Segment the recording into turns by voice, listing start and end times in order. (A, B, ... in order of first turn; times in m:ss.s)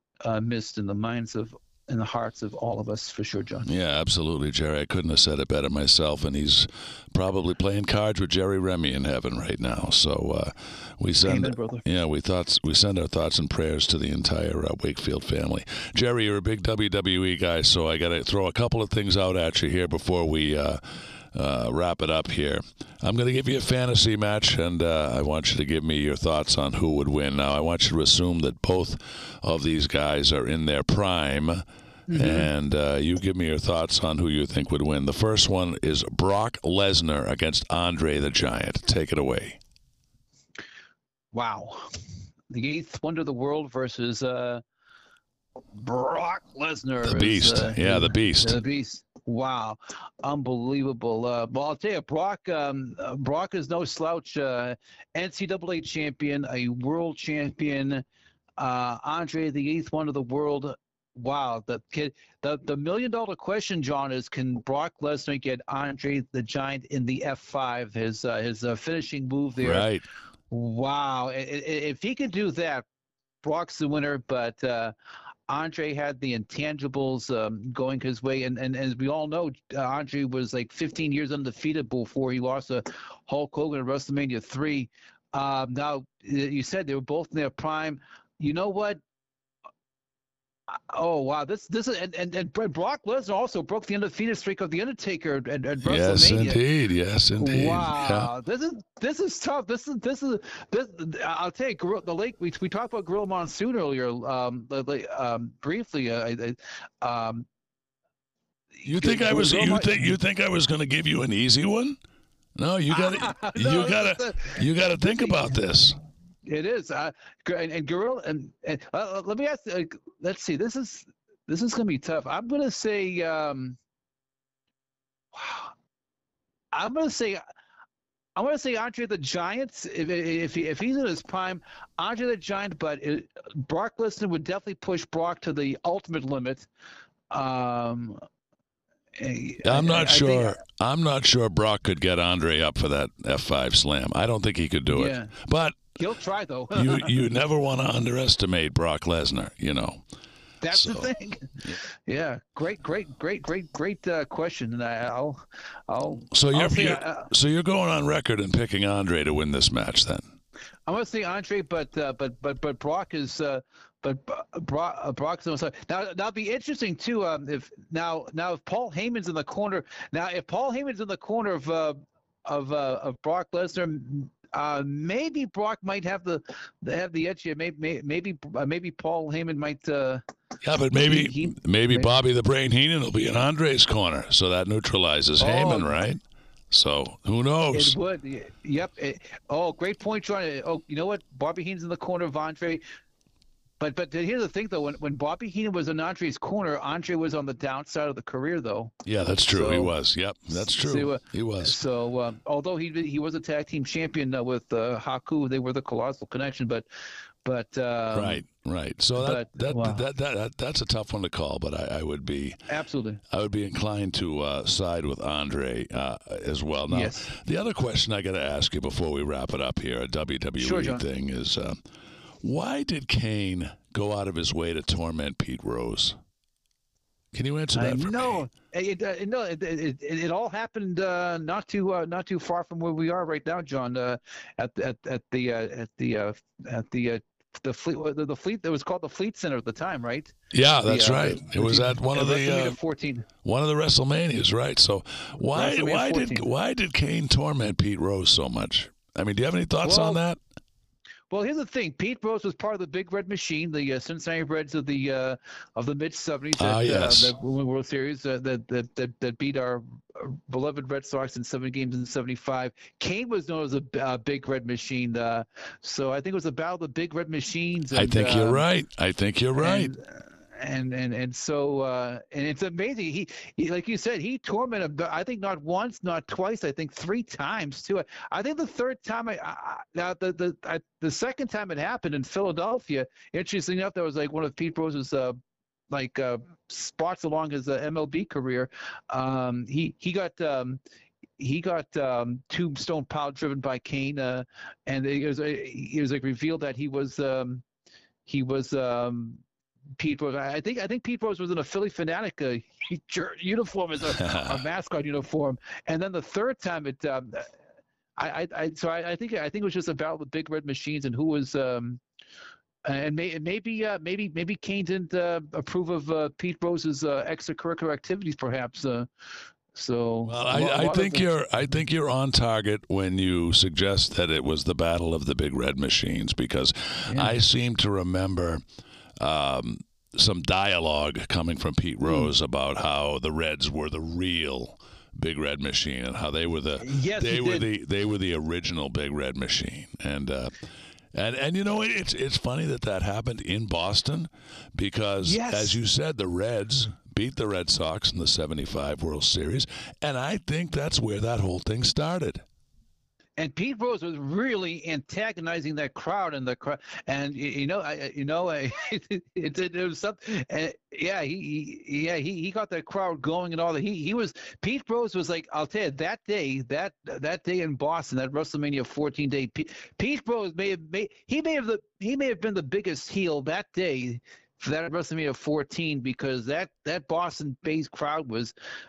0:00.2-0:03.7 A
0:03.6-0:39.6 B
0:11.2-0:11.8 A
0:32.1-0:32.5 A
0:41.3-0:41.9 A
0:42.5-0:44.6 A
0:45.7-0:58.0 A
0:47.0-0:48.6 B
0:58.6-1:09.9 A
1:09.6-1:10.0 B
1:10.5-1:12.8 A
1:13.4-1:14.9 A
1:15.5-1:29.0 A
1:30.7-1:36.6 A
1:35.8-1:38.3 B
1:37.4-1:47.5 A
1:48.8-1:50.2 A
1:48.8-1:52.0 B
1:52.6-1:56.0 B
1:52.9-1:55.5 A
1:56.4-2:03.8 A
2:05.3-2:05.7 A
2:06.7-2:07.4 A
2:08.4-2:16.7 A
2:17.3-2:18.2 A
2:19.2-2:20.6 A
2:19.6-2:25.9 B
2:24.9-2:25.3 A
2:26.0-2:27.3 A
2:26.7-2:30.0 B
2:30.6-2:37.3 A
2:30.7-2:31.1 B
2:36.3-2:40.2 B
2:40.9-3:00.2 A
3:00.6-3:08.0 B
3:00.9-3:02.1 A
3:05.4-3:06.0 A
3:07.7-3:12.8 A
3:13.8-3:19.0 A
3:19.0-3:21.8 B
3:19.5-3:19.9 A
3:20.5-3:26.8 A
3:27.4-3:28.4 A
3:28.1-3:32.6 B
3:29.2-3:30.0 A
3:32.7-3:33.2 A
3:33.3-3:41.8 B
3:36.9-3:37.3 A
3:40.6-3:41.0 A
3:42.4-3:46.2 B
3:47.3-3:48.4 B
3:47.7-4:03.3 A
4:00.5-4:02.8 B
4:03.4-4:10.4 B
4:05.5-4:06.4 A
4:09.8-4:10.2 A
4:11.3-4:28.6 A
4:16.6-4:17.3 B
4:27.9-4:29.9 B
4:29.5-4:45.4 A
4:45.9-4:50.8 A
4:51.4-4:57.6 A
4:58.2-4:59.4 A
5:00.0-5:07.5 A
5:04.2-5:04.6 B
5:08.2-5:12.0 A
5:12.8-5:19.1 A
5:19.7-5:21.3 A
5:20.2-5:28.6 B
5:27.1-5:27.4 A
5:29.2-5:52.4 B
5:32.0-5:32.3 A
5:36.8-5:37.7 A
5:45.2-5:45.8 A
5:53.4-6:18.5 A